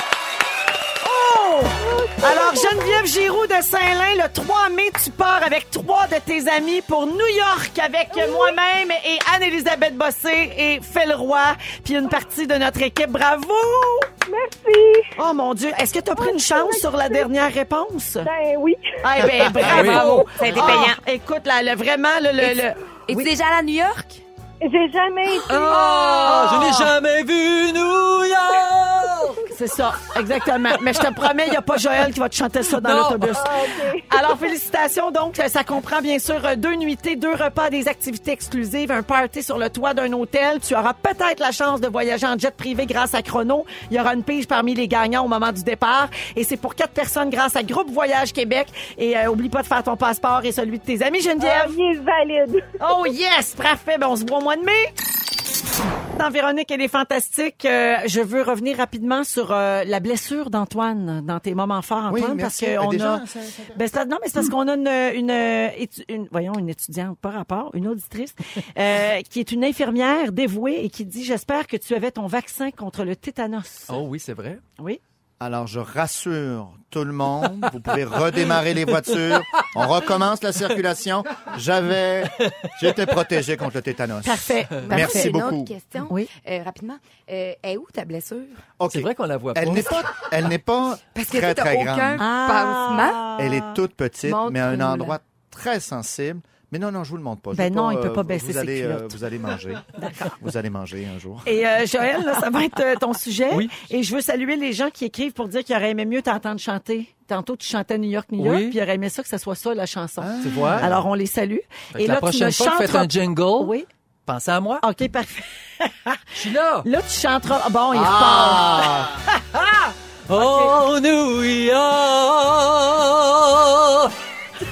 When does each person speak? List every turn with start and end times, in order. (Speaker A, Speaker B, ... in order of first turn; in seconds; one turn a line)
Speaker A: 1.0-14.1
Speaker B: 1.9-2.8
Speaker B: 8.1-8.6
Speaker B: 14.2-15.1
Speaker A: 15.2-18.3
Speaker B: 16.2-17.2
Speaker B: 18.2-20.6
Speaker A: 19.0-23.3
Speaker C: 19.6-21.0
Speaker D: 19.6-20.2
Speaker C: 22.4-24.2
Speaker B: 24.6-26.6
Speaker D: 25.5-29.4
Speaker C: 25.7-26.8
Speaker A: 26.2-26.9
Speaker A: 29.5-51.8
Speaker D: 30.7-31.6
Speaker D: 32.7-33.6
Speaker B: 33.4-34.3
Speaker B: 51.4-52.7
Speaker A: 52.8-54.9
Speaker A: 56.1-74.0
Speaker E: 62.1-63.8
Speaker D: 73.9-74.6
Speaker E: 75.4-85.7
Speaker D: 79.1-79.6
Speaker A: 84.2-85.4
Speaker C: 84.9-88.6
Speaker E: 88.8-92.2
Speaker D: 88.9-90.1
Speaker C: 91.1-93.3
Speaker A: 92.2-93.8
Speaker E: 93.4-101.6
Speaker C: 94.2-95.2
Speaker A: 97.5-99.2
Speaker A: 100.0-100.3
Speaker A: 101.5-113.9
Speaker D: 108.4-108.8
Speaker E: 110.2-111.0
Speaker D: 110.4-110.9
Speaker D: 111.9-113.7
Speaker D: 114.3-114.8
Speaker A: 114.8-116.2
Speaker D: 116.3-116.9
Speaker A: 116.8-119.1
Speaker E: 117.9-119.2
Speaker D: 120.3-124.1